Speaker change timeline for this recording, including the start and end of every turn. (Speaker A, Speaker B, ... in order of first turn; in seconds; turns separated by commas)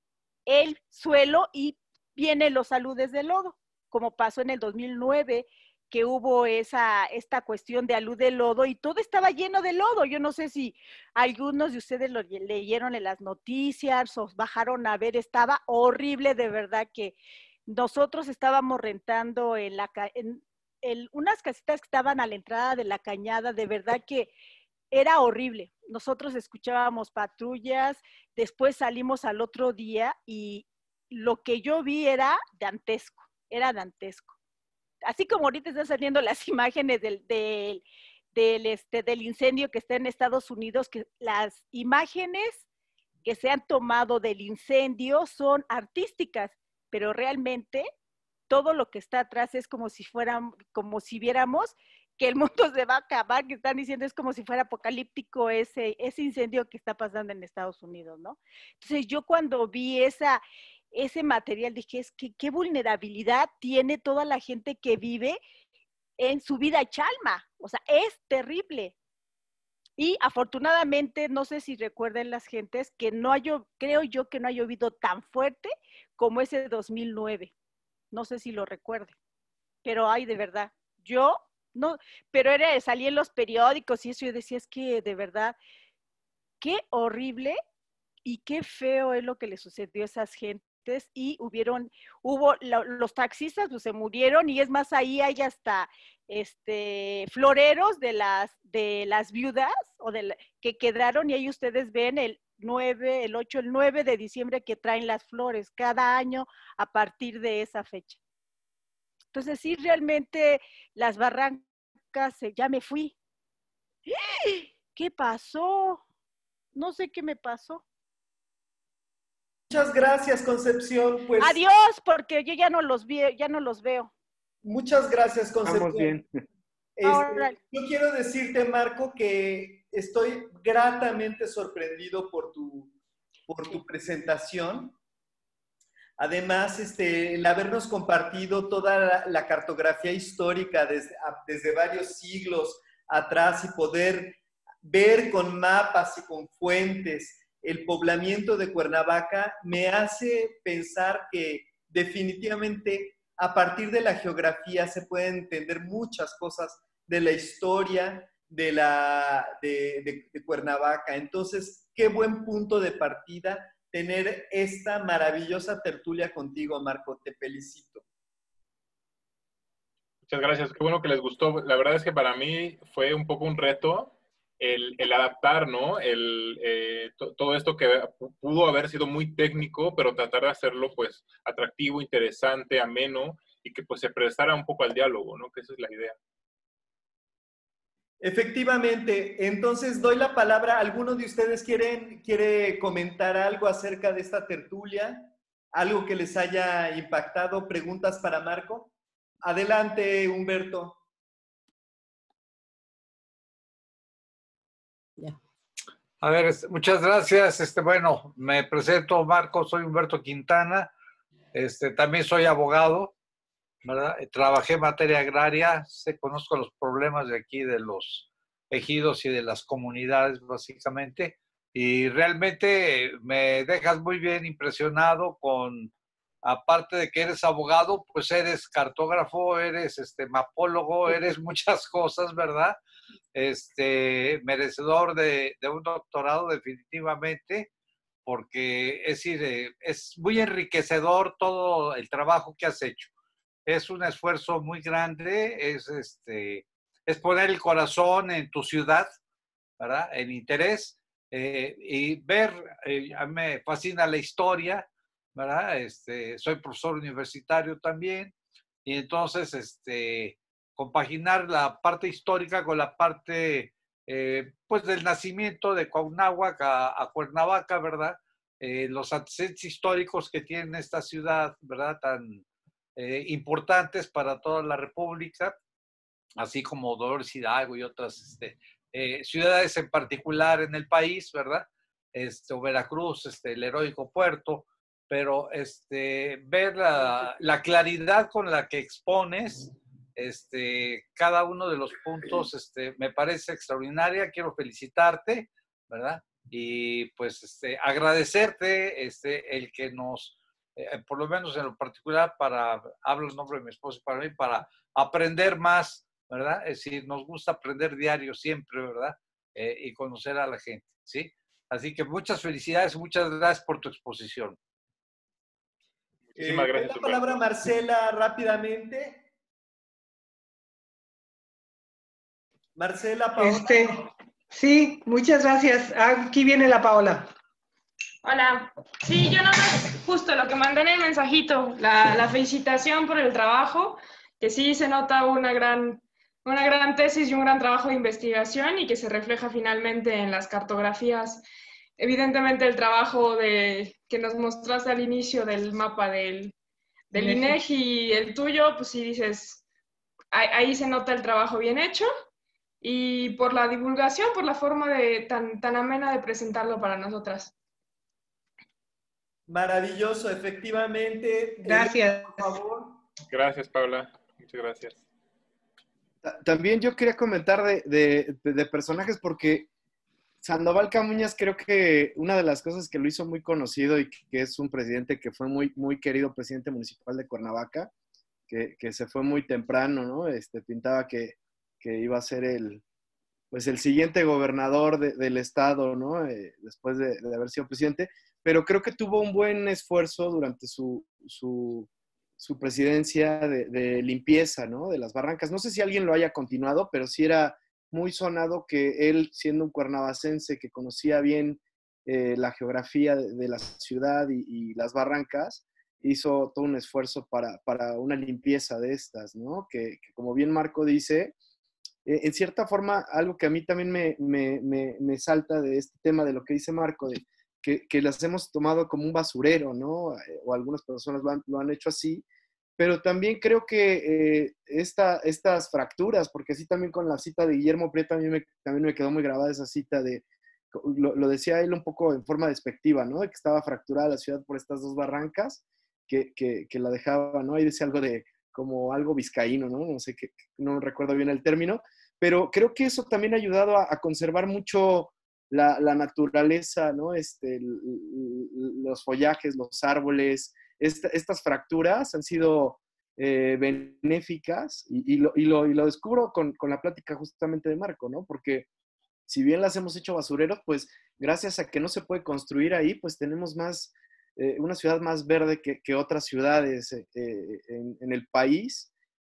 Speaker A: 0.5-17.2, Speaker A: 17.7-24.3, Speaker A: 24.9-34.3, Speaker A: 35.0-37.8, Speaker A: 38.3-42.6, Speaker A: 43.2-47.9, Speaker A: 48.5-65.4, Speaker A: 66.2-68.9, Speaker A: 70.0-77.5, Speaker A: 78.1-79.1, Speaker A: 79.8-85.5, Speaker A: 86.6-87.6, Speaker A: 88.2-108.2, Speaker A: 109.3-113.1, Speaker A: 114.1-116.0, Speaker A: 116.8-117.8, Speaker B: 119.7-121.6, Speaker A: 121.4-124.1, Speaker B: 124.6-126.2, Speaker C: 125.6-126.3, Speaker B: 127.0-132.9, Speaker A: 127.0-127.6, Speaker B: 133.5-135.0, Speaker B: 136.2-168.0, Speaker D: 170.3-186.2, Speaker B: 188.2-198.9, Speaker B: 199.4-201.0, Speaker E: 206.2-210.9, Speaker E: 211.5-213.1, Speaker E: 213.8-225.9, Speaker E: 226.4-232.8, Speaker E: 233.3-237.7, Speaker E: 238.3-243.1, Speaker E: 243.7-249.1, Speaker E: 249.8-258.3, Speaker E: 258.9-272.4, Speaker E: 273.0-275.6, Speaker E: 276.4-314.6, Speaker D: 316.3-317.4, Speaker B: 316.4-319.2, Speaker B: 322.8-323.8, Speaker F: 323.4-327.3, Speaker G: 328.2-341.4, Speaker G: 342.0-346.5, Speaker G: 347.1-349.6, Speaker F: 347.1-347.6, Speaker G: 350.3-352.1, Speaker G: 352.8-357.5, Speaker B: 359.5-363.0, Speaker F: 361.6-362.6, Speaker D: 363.3-365.0, Speaker C: 366.2-369.7, Speaker C: 370.4-377.9, Speaker C: 378.5-382.8, Speaker C: 383.5-411.3, Speaker C: 412.1-422.2, Speaker C: 422.8-458.7, Speaker C: 459.3-468.9